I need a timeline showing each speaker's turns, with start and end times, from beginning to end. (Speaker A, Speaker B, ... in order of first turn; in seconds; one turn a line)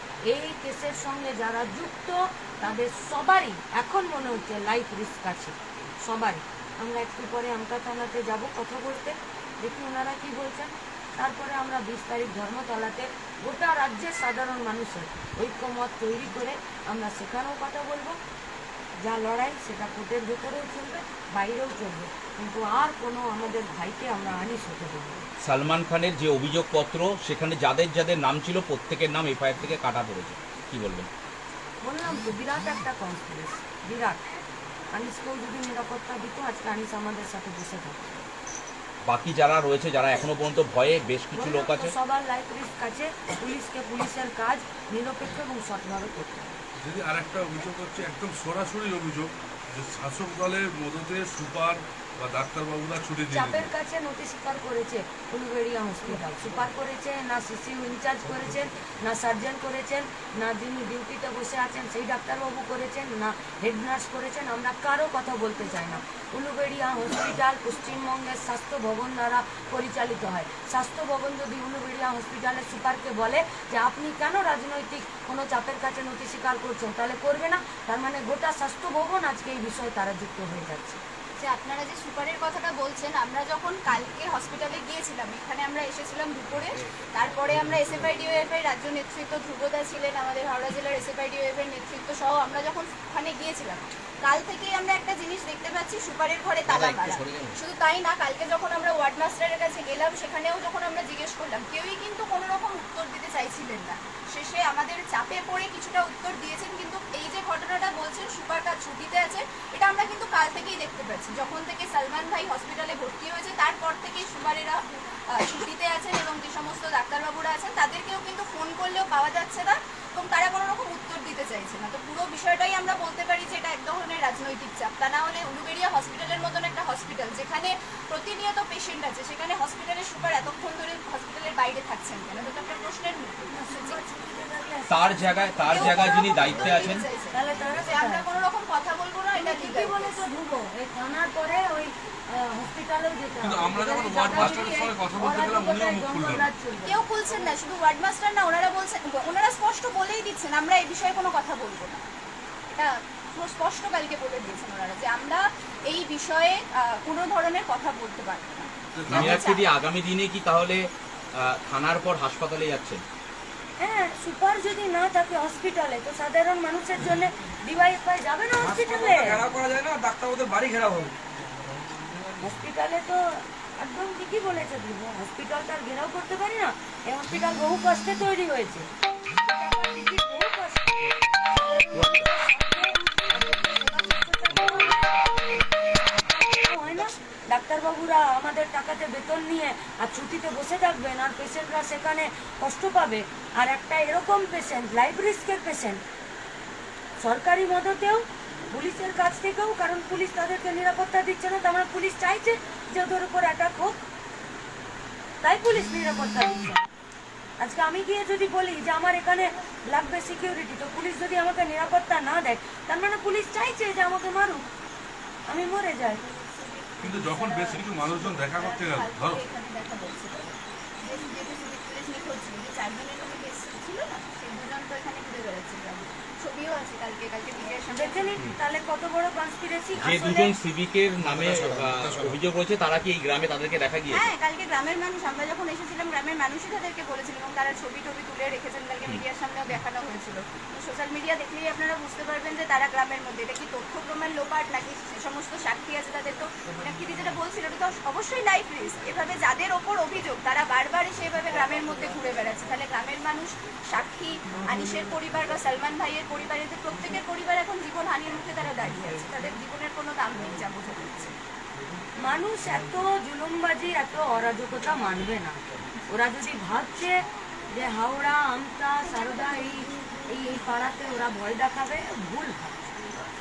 Speaker A: 0.3-18.2
Speaker A: 19.0-25.2
Speaker B: 25.4-31.1
Speaker A: 31.8-34.2
Speaker A: 34.9-38.0
Speaker B: 39.0-41.9
Speaker A: 41.3-46.5
Speaker C: 46.8-53.7
Speaker A: 53.3-81.0
Speaker D: 81.4-134.0
Speaker A: 133.5-138.3
Speaker B: 134.9-137.1
Speaker D: 135.6-140.2
Speaker A: 139.3-147.5
Speaker C: 143.4-146.5
Speaker D: 144.3-144.9
Speaker D: 146.8-152.1
Speaker D: 152.7-159.7
Speaker C: 158.9-159.4
Speaker B: 159.1-163.0
Speaker A: 163.8-169.4
Speaker E: 168.6-171.2
Speaker E: 171.8-172.2
Speaker A: 172.4-180.9
Speaker A: 181.6-185.6
Speaker A: 186.2-196.0
Speaker A: 197.2-204.0
Speaker A: 205.4-206.9
Speaker A: 207.6-214.7
Speaker A: 215.5-216.2
Speaker D: 216.4-228.3
Speaker C: 217.0-219.4
Speaker A: 227.9-230.5
Speaker B: 230.0-234.3
Speaker D: 234.1-261.4
Speaker A: 262.2-267.2
Speaker A: 267.7-272.8